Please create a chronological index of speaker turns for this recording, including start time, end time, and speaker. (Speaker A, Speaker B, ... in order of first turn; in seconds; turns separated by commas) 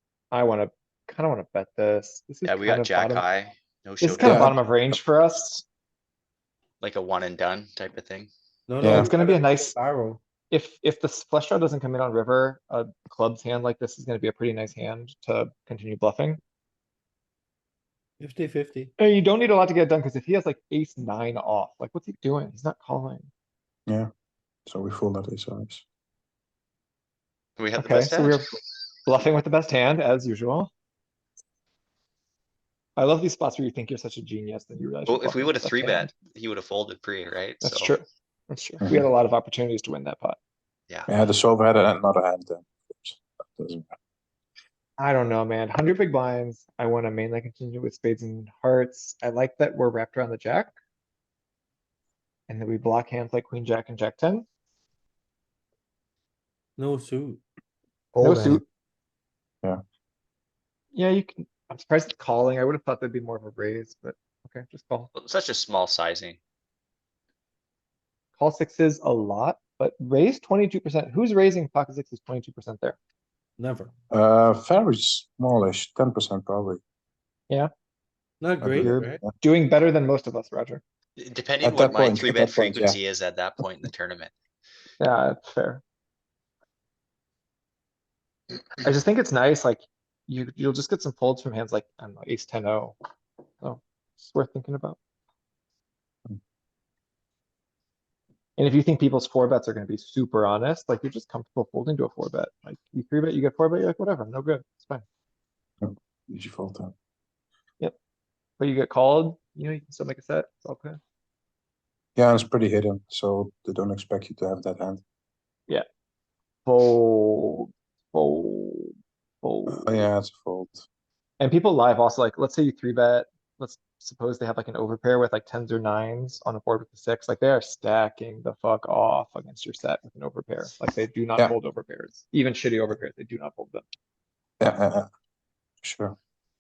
Speaker A: 0.3-3.2, Speaker B: 2.4-4.5, Speaker A: 4.0-5.6, Speaker C: 4.2-4.6, Speaker B: 6.8-8.3, Speaker D: 8.7-10.2, Speaker C: 8.8-9.1, Speaker A: 8.8-9.7, Speaker A: 10.5-16.4, Speaker D: 18.2-18.9, Speaker A: 19.0-23.3, Speaker C: 24.7-25.8, Speaker B: 27.6-28.4, Speaker A: 27.8-30.7, Speaker A: 33.0-36.1, Speaker B: 35.1-37.9, Speaker A: 37.6-40.4, Speaker C: 38.8-39.0, Speaker C: 41.1-43.9, Speaker A: 45.0-50.7, Speaker A: 52.5-54.5, Speaker D: 56.8-57.4, Speaker C: 58.1-58.6, Speaker A: 58.2-58.6, Speaker A: 60.9-65.1, Speaker B: 65.1-66.4, Speaker A: 68.4-73.0, Speaker D: 73.6-73.9, Speaker C: 74.1-76.8, Speaker D: 78.4-79.2, Speaker C: 78.6-79.2, Speaker A: 78.8-80.8, Speaker B: 81.2-84.3, Speaker C: 81.6-83.0, Speaker A: 85.0-85.8, Speaker A: 88.8-93.0, Speaker A: 93.6-95.0, Speaker A: 98.6-105.0, Speaker C: 105.8-106.9, Speaker A: 108.6-111.0, Speaker C: 112.2-115.0, Speaker A: 116.7-120.1, Speaker C: 119.7-120.8, Speaker A: 121.4-133.8, Speaker C: 134.6-135.1, Speaker C: 135.8-136.2